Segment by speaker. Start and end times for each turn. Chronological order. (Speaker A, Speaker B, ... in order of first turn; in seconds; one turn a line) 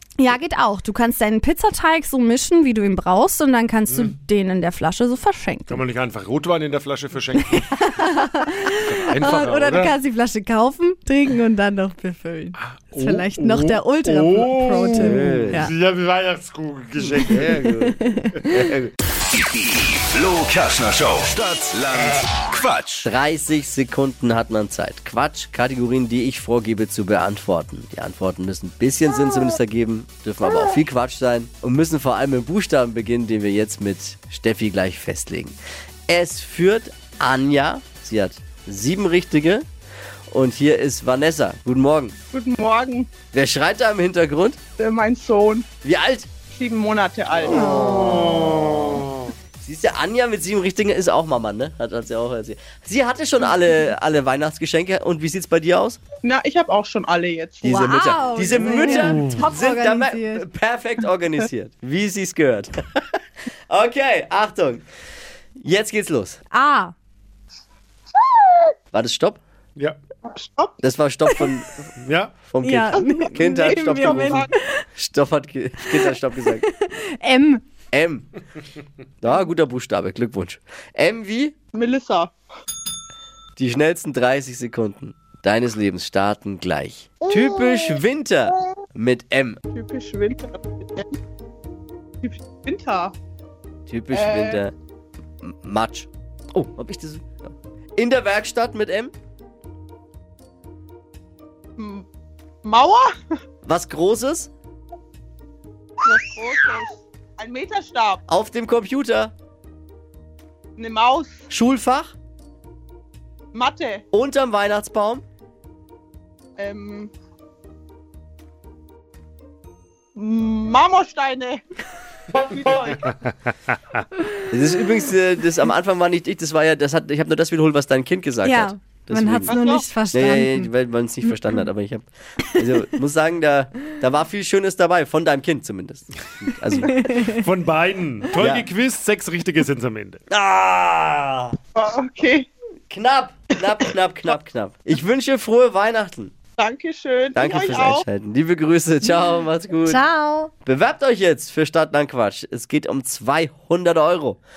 Speaker A: 0.2-5.8
Speaker B: 5.7-8.2
Speaker A: 7.6-15.7
Speaker B: 8.7-9.9
Speaker B: 12.9-17.6
Speaker C: 15.0-15.7
Speaker C: 17.1-18.9
Speaker A: 17.8-18.5
Speaker D: 19.3-23.1
Speaker C: 23.0-35.5
Speaker C: 36.1-39.6
Speaker C: 40.3-42.1
Speaker E: 42.3-43.1
Speaker C: 43.3-44.6
Speaker E: 44.8-45.7
Speaker C: 45.8-46.3
Speaker E: 46.4-48.5
Speaker A: 47.5-48.1
Speaker C: 47.5-48.7
Speaker C: 49.6-56.0
Speaker E: 56.2-57.8
Speaker A: 57.6-60.5
Speaker C: 57.6-63.1
Speaker C: 63.7-64.8
Speaker C: 65.6-66.4
Speaker A: 66.5-66.9
Speaker C: 68.9-69.4
Speaker E: 70.3-70.8
Speaker C: 70.8-71.9
Speaker B: 72.0-72.3
Speaker C: 72.5-76.7
Speaker A: 72.6-74.8
Speaker E: 73.4-74.5
Speaker A: 76.8-77.6
Speaker C: 77.9-78.3
Speaker C: 79.2-81.5
Speaker E: 81.7-82.3
Speaker C: 83.6-89.6
Speaker E: 87.2-88.0
Speaker E: 89.7-91.1
Speaker E: 92.2-93.1
Speaker C: 93.9-94.7
Speaker E: 94.1-94.6
Speaker C: 95.4-99.1
Speaker E: 101.8-102.1
Speaker E: 102.6-103.4
Speaker C: 103.6-104.5
Speaker E: 106.0-108.2
Speaker C: 108.3-109.3
Speaker E: 110.8-111.5
Speaker C: 111.5-112.1
Speaker E: 113.5-114.0
Speaker C: 114.1-115.2
Speaker E: 116.6-117.1
Speaker E: 120.1-121.6
Speaker E: 122.3-123.1
Speaker C: 124.5-129.5
Speaker A: 128.4-130.7
Speaker E: 129.4-129.9
Speaker C: 130.1-137.1
Speaker A: 136.9-137.3
Speaker B: 137.2-140.2
Speaker C: 138.4-138.7
Speaker C: 140.3-141.6
Speaker E: 141.7-142.5
Speaker C: 142.9-146.3
Speaker E: 146.6-148.1
Speaker C: 147.3-150.0
Speaker A: 149.8-150.5
Speaker C: 150.6-154.4